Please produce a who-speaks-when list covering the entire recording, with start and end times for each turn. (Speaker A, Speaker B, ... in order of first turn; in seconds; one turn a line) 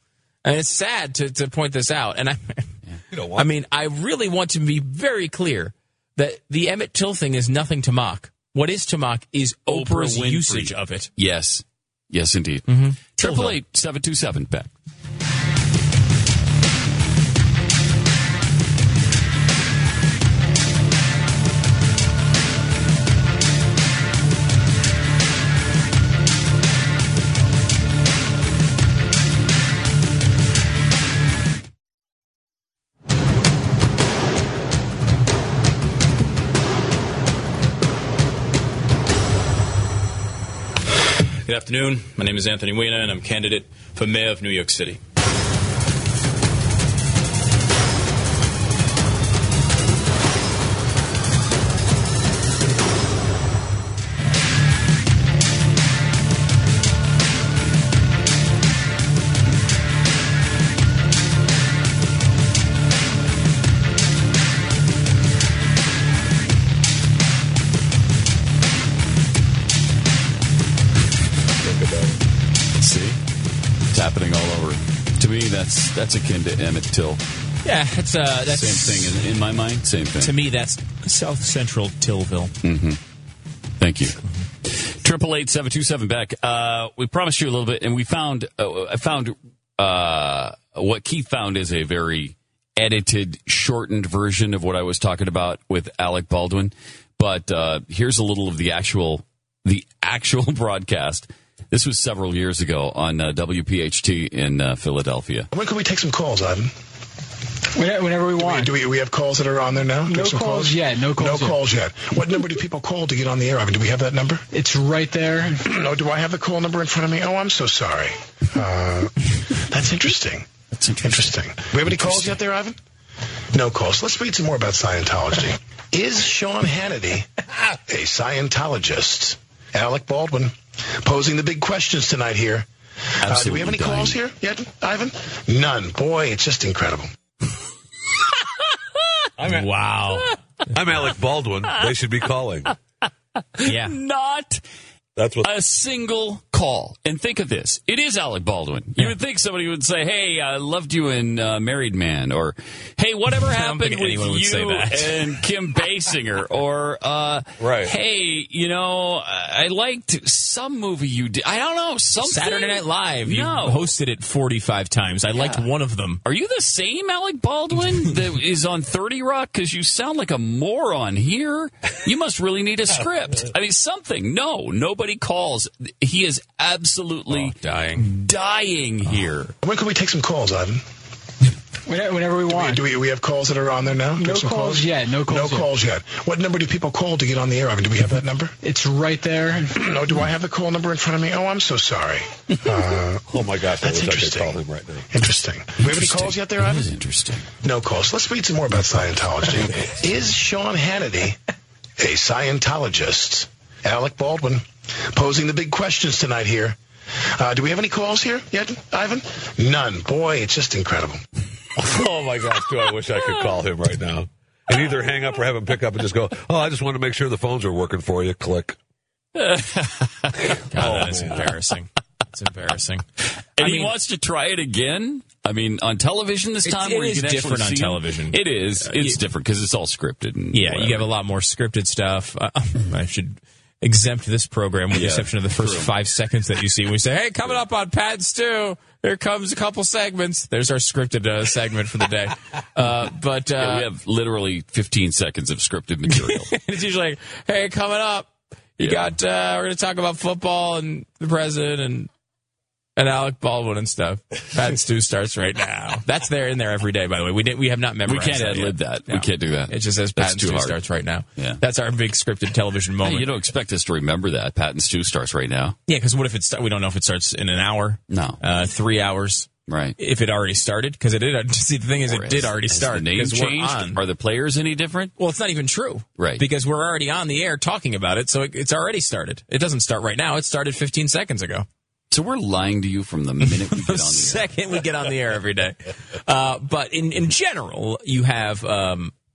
Speaker A: 0.4-2.6
Speaker B: 3.1-3.5
Speaker A: 3.4-11.1
Speaker C: 9.7-14.7
Speaker A: 12.7-13.6
Speaker D: 41.5-45.0
Speaker B: 71.6-72.2
Speaker C: 72.8-73.2
Speaker C: 73.9-77.2
Speaker A: 77.7-79.2
Speaker C: 78.5-80.4
Speaker A: 80.2-82.5
Speaker C: 82.6-83.0
Speaker C: 83.8-105.5
Speaker E: 105.5-106.7
Speaker F: 107.8-108.7
Speaker E: 108.4-114.5
Speaker F: 110.0-111.6
Speaker F: 114.5-115.6
Speaker E: 115.6-119.1
Speaker E: 119.7-120.5
Speaker C: 120.7-122.4
Speaker E: 121.0-122.8
Speaker E: 123.5-127.3
Speaker E: 127.9-132.7
Speaker E: 133.2-137.1
Speaker C: 133.2-134.2
Speaker B: 139.4-139.7
Speaker A: 139.4-140.3
Speaker B: 140.7-142.7
Speaker C: 143.6-144.6
Speaker A: 143.6-143.9
Speaker B: 145.2-145.5
Speaker C: 145.4-163.9
Speaker A: 153.4-155.1
Speaker B: 157.6-157.9
Speaker A: 162.2-166.2
Speaker C: 165.3-165.6
Speaker C: 166.2-179.5
Speaker A: 177.3-178.1
Speaker E: 179.6-180.8
Speaker F: 181.9-182.8
Speaker E: 182.5-188.5
Speaker F: 184.2-185.7
Speaker F: 188.6-189.7
Speaker E: 189.7-196.9
Speaker B: 193.3-195.1
Speaker C: 195.8-197.5
Speaker E: 197.6-201.4
Speaker E: 202.0-206.8
Speaker E: 207.4-211.2
Speaker B: 211.8-218.8
Speaker C: 219.4-220.3
Speaker A: 220.7-223.1
Speaker B: 220.8-221.4
Speaker C: 223.6-231.1
Speaker A: 223.6-223.9
Speaker A: 226.7-229.2
Speaker A: 230.5-243.9
Speaker C: 234.9-235.9
Speaker C: 243.6-246.5
Speaker A: 246.1-252.1
Speaker C: 248.8-249.2
Speaker A: 253.0-263.3
Speaker C: 258.1-260.8
Speaker C: 263.0-265.8
Speaker A: 265.9-274.0
Speaker C: 268.1-268.4
Speaker C: 269.7-270.0
Speaker C: 272.0-275.1
Speaker A: 275.2-281.7
Speaker C: 276.2-276.4
Speaker C: 282.1-284.5
Speaker A: 283.4-289.1